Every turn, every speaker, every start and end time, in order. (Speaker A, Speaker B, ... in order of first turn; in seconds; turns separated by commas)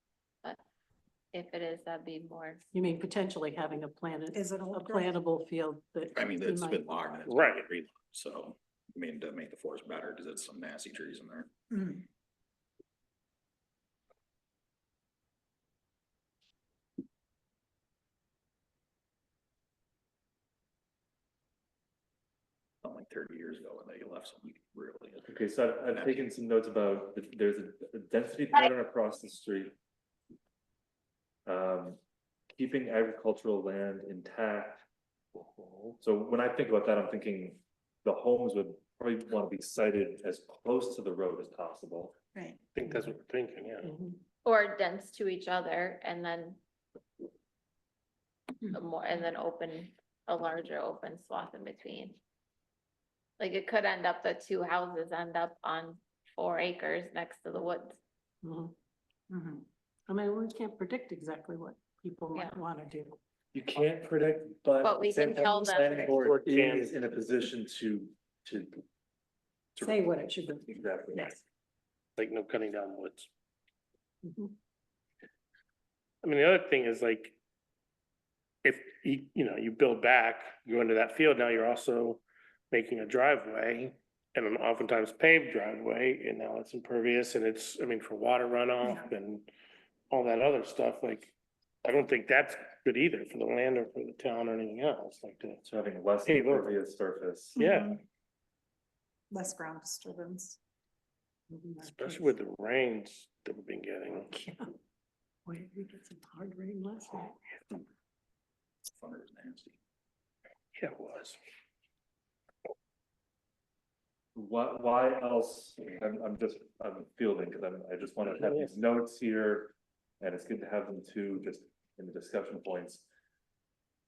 Speaker A: 1.3-2.6, Speaker B: 2.7-7.0, Speaker C: 4.3-5.2, Speaker D: 6.2-11.5, Speaker E: 7.2-7.6, Speaker C: 11.7-12.0, Speaker D: 22.8-25.3, Speaker F: 25.2-29.7, Speaker D: 25.9-26.2, Speaker F: 31.4-32.0, Speaker F: 32.5-34.8, Speaker F: 36.0-42.1, Speaker E: 42.7-43.9, Speaker B: 42.9-43.1, Speaker B: 43.8-44.1, Speaker A: 44.4-46.6, Speaker A: 48.6-52.2, Speaker A: 53.4-58.0, Speaker B: 58.4-58.7, Speaker B: 59.4-63.2, Speaker F: 63.5-68.8, Speaker A: 64.8-66.2, Speaker E: 66.2-67.0, Speaker F: 69.8-70.0, Speaker B: 69.8-71.0, Speaker F: 70.7-71.4, Speaker E: 72.2-73.3, Speaker B: 74.2-74.5, Speaker E: 76.2-77.3, Speaker E: 78.6-89.5, Speaker E: 90.1-91.3, Speaker E: 91.8-95.6, Speaker F: 95.6-97.6, Speaker E: 96.2-96.7, Speaker C: 97.6-98.0, Speaker E: 97.6-98.0, Speaker C: 99.3-100.6, Speaker B: 101.5-102.3, Speaker E: 101.8-104.3, Speaker B: 104.3-104.7, Speaker B: 105.5-107.4, Speaker D: 108.9-109.7, Speaker E: 110.7-111.4, Speaker F: 114.3-123.0, Speaker E: 118.4-118.7